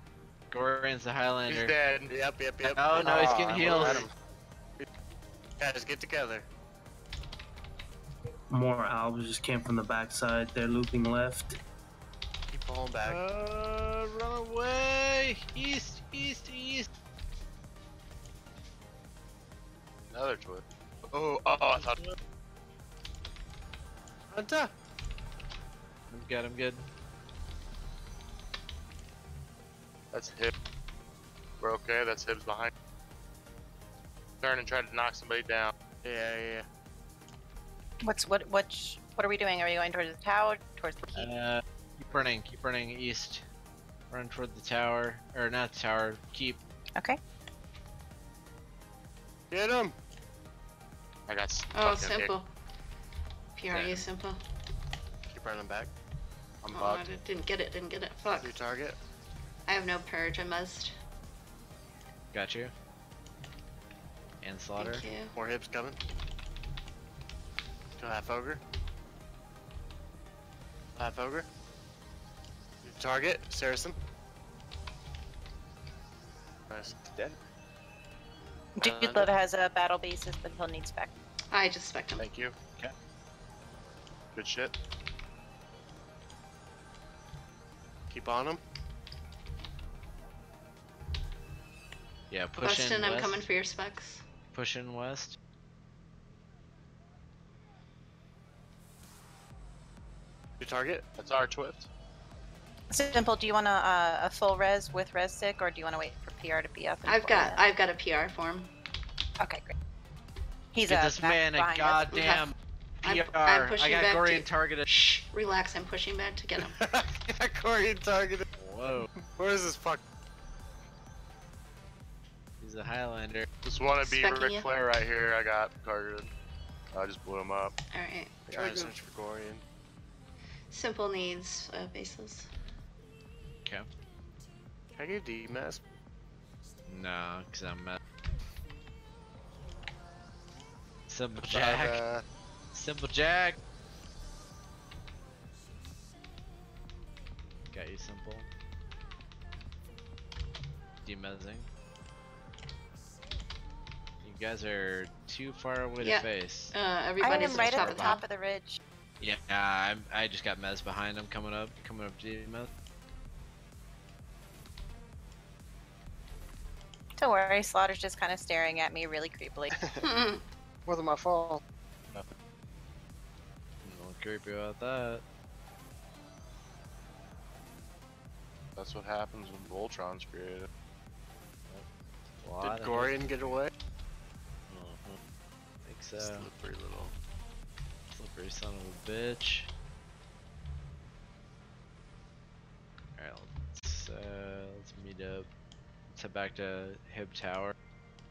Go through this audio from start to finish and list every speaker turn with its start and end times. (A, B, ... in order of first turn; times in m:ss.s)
0:00.5-0:01.7 A
0:01.5-0:02.1 B
0:02.1-0:04.1 C
0:02.6-0:04.1 A
0:03.0-0:04.1 B
0:05.6-0:06.5 C
0:08.5-0:11.6 D
0:12.5-0:13.2 C
0:13.0-0:16.9 A
0:20.1-0:22.0 B
0:21.7-0:22.2 A
0:24.3-0:24.7 C
0:26.1-0:26.9 A
0:30.1-0:30.5 B
0:31.6-0:32.7 B
0:34.4-0:35.7 B
0:36.0-0:36.6 C
0:38.0-0:41.3 E
0:41.1-0:43.4 A
0:44.1-0:46.6 A
0:49.5-0:50.0 C
0:51.3-0:52.3 B
0:51.7-0:52.5 F
0:53.6-0:54.4 F
0:53.7-0:54.1 A
0:55.3-0:55.9 C
0:56.6-0:57.1 B
0:56.7-0:58.6 F
0:58.4-0:59.0 C
0:59.7-1:00.9 F
1:02.3-1:02.7 A
1:04.4-1:05.1 A
1:04.8-1:05.4 F
1:05.3-1:06.0 C
1:08.0-1:08.6 C
1:11.0-1:11.5 C
1:12.8-1:14.0 C
1:16.7-1:17.0 C
1:17.0-1:17.4 B
1:18.8-1:21.1 E
1:18.8-1:19.3 C
1:21.5-1:22.3 F
1:22.2-1:22.6 B
1:24.3-1:24.8 B
1:28.1-1:28.6 C
1:32.3-1:33.5 A
1:32.6-1:34.2 F
1:34.5-1:35.4 A
1:40.6-1:41.1 C
1:41.1-1:41.9 B
1:42.9-1:47.6 E
1:47.0-1:48.7 F
1:49.4-1:49.7 E
1:50.7-1:52.5 E
1:50.8-1:54.9 A
1:53.0-1:56.8 F
1:56.6-1:58.4 C
1:58.5-1:59.1 A
1:59.3-2:00.0 C
2:02.6-2:03.5 A
2:03.6-2:06.3 B
2:04.0-2:04.7 F
2:06.9-2:07.8 B
2:07.9-2:08.5 F
2:08.5-2:08.9 B
2:08.5-2:09.6 C
2:10.7-2:12.5 F
2:14.9-2:15.8 C
2:16.9-2:18.0 A
2:21.1-2:22.0 A
2:21.5-2:22.2 C
2:22.7-2:23.6 A
2:27.7-2:28.5 A
2:31.0-2:31.7 A
2:34.2-2:36.8 A
2:36.0-2:38.2 F
2:37.2-2:38.8 E
2:37.3-2:38.2 A
2:39.2-2:42.7 A
2:47.2-2:49.8 E
2:50.0-2:50.4 F
2:50.9-2:51.6 B
2:53.8-2:55.2 A
2:58.8-3:00.7 B
3:02.4-3:03.6 A
3:02.6-3:03.7 C
3:04.7-3:05.2 A
3:05.8-3:06.5 A
3:06.2-3:07.1 C
3:08.1-3:09.7 A
3:13.2-3:15.5 A
3:16.1-3:17.7 A